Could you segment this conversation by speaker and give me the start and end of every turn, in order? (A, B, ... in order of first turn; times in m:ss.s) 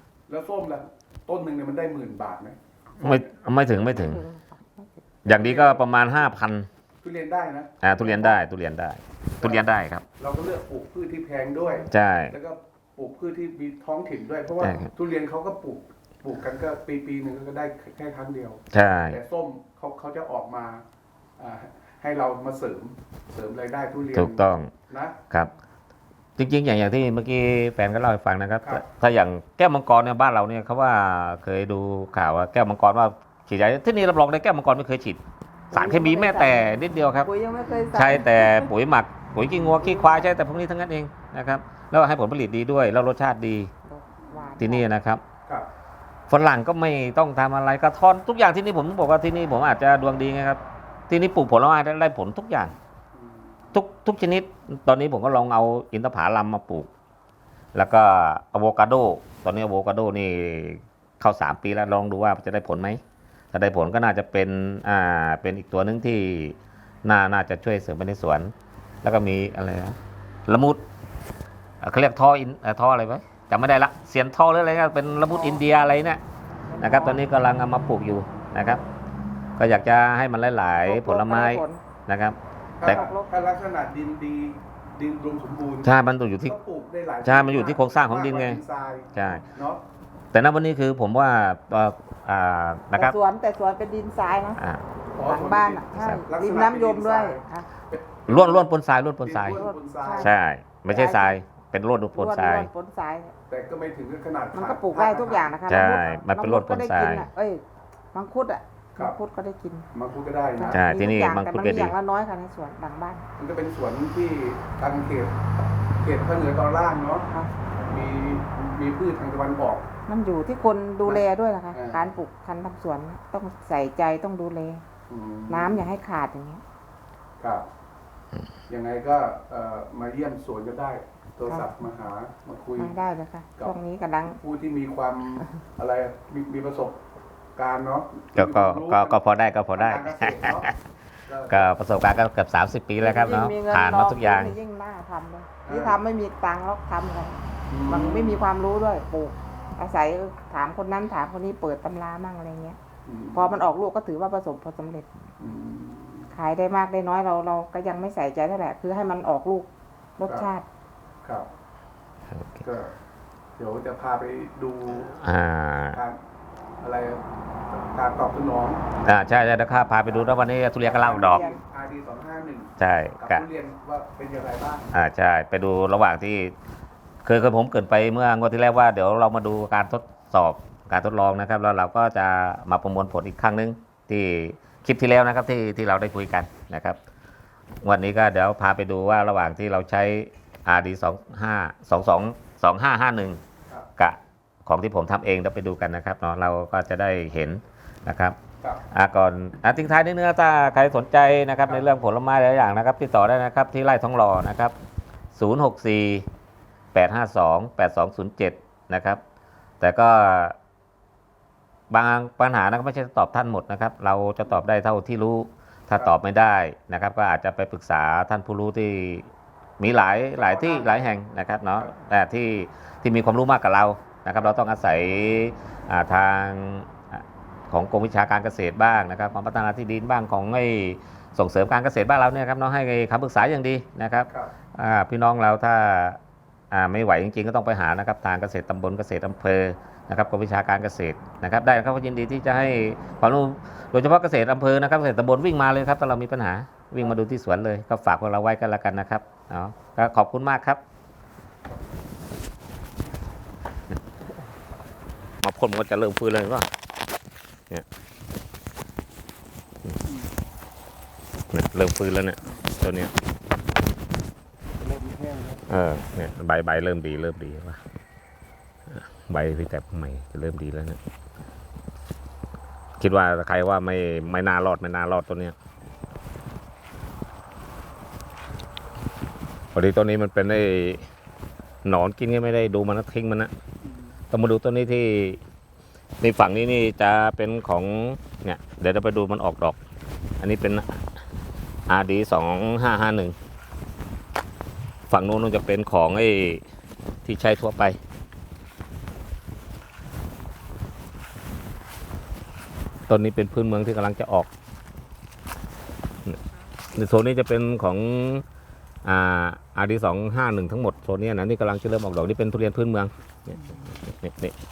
0:00.3-0:03.1 A
0:03.0-0:04.2 B
0:03.9-0:05.0 C
0:05.2-0:06.7 B
0:05.3-0:05.8 A
0:07.0-0:08.4 A
0:07.8-0:10.0 B
0:09.4-0:09.7 A
0:10.2-0:20.8 A
0:11.9-0:12.3 B
0:14.6-0:14.9 B
0:18.7-0:19.2 B
0:21.4-0:25.2 A
0:24.1-0:24.7 B
0:26.4-0:35.2 B
0:35.7-0:37.3 B
0:35.7-0:38.7 C
0:37.5-0:37.9 A
0:37.9-0:43.7 B
0:39.5-0:39.8 A
0:43.9-0:44.8 C
0:44.3-0:44.6 A
0:44.6-0:45.2 B
0:46.3-0:52.7 B
0:53.1-0:53.7 A
0:53.7-0:56.9 B
0:57.7-1:03.0 B
1:03.5-1:08.5 B
1:09.0-1:10.8 B
1:11.8-1:16.2 B
1:15.3-1:15.6 C
1:16.7-1:17.2 C
1:16.8-1:18.8 B
1:19.6-1:23.0 B
1:20.8-1:21.8 C
1:22.8-1:29.8 A
1:22.8-1:23.3 C
1:25.8-1:26.5 B
1:27.2-1:28.6 B
1:29.1-1:29.4 B
1:30.3-1:33.2 B
1:32.9-1:34.6 C
1:34.6-1:34.8 B
1:35.2-1:38.6 A
1:35.2-1:37.7 C
1:36.0-1:36.2 B
1:38.3-1:39.6 B
1:39.2-1:40.4 A
1:39.5-1:40.3 C
1:40.2-1:42.7 B
1:40.9-1:41.4 C
1:42.1-1:43.3 C
1:43.5-1:45.6 A
1:44.5-1:49.9 C
1:45.7-1:47.3 B
1:49.9-1:50.8 A
1:50.6-1:53.2 C
1:50.7-1:51.9 B
1:53.4-1:55.4 A
1:56.0-1:57.3 A
1:57.8-1:59.9 A
2:00.1-2:04.8 C
2:01.0-2:02.0 A
2:05.1-2:05.8 A
2:05.5-2:06.6 C
2:07.4-2:07.6 A
2:08.7-2:12.9 A
2:11.5-2:11.7 C
2:12.8-2:14.4 C
2:14.3-2:17.0 A
2:17.6-2:19.2 A
2:18.3-2:20.7 B
2:19.8-2:20.7 A
2:21.3-2:21.7 A
2:21.5-2:24.6 B
2:23.0-2:32.8 C
2:25.6-2:26.0 A
2:27.7-2:28.4 A
2:33.0-2:33.6 A
2:33.3-2:35.1 C
2:35.4-2:36.3 A
2:36.3-2:40.6 C
2:42.3-2:42.6 B
2:42.6-2:42.9 A
2:43.6-2:45.2 A
2:45.1-2:46.0 B
2:45.9-2:46.2 A
2:46.8-2:49.0 A
2:49.0-2:51.4 B
2:50.1-2:54.9 A
2:50.9-2:51.6 C
2:52.8-2:53.4 B
2:54.9-2:56.5 B
2:57.2-3:07.0 B
3:07.8-3:13.4 B
3:14.0-3:18.4 B
3:18.9-3:24.8 B
3:25.3-3:26.3 B
3:26.9-3:29.2 B
3:29.8-3:30.6 B
3:31.9-3:56.2 B
3:40.3-3:41.1 A
3:56.7-4:10.8 B
4:15.4-4:16.7 B
4:20.0-4:20.3 A
4:21.5-4:23.1 B
4:24.7-4:25.6 A
4:25.7-4:27.8 B
4:28.9-4:31.0 B
4:33.0-4:35.5 B
4:39.7-4:41.0 B
4:41.8-4:43.5 B
4:43.8-4:44.1 A
4:44.3-4:45.4 B
4:46.2-4:49.8 B
4:50.4-4:51.0 B
4:51.9-4:53.4 B
4:55.1-4:56.6 B
4:57.2-4:58.0 B
5:03.1-5:04.5 B
5:06.9-5:08.4 B
5:09.0-5:14.6 B
5:13.5-5:13.8 A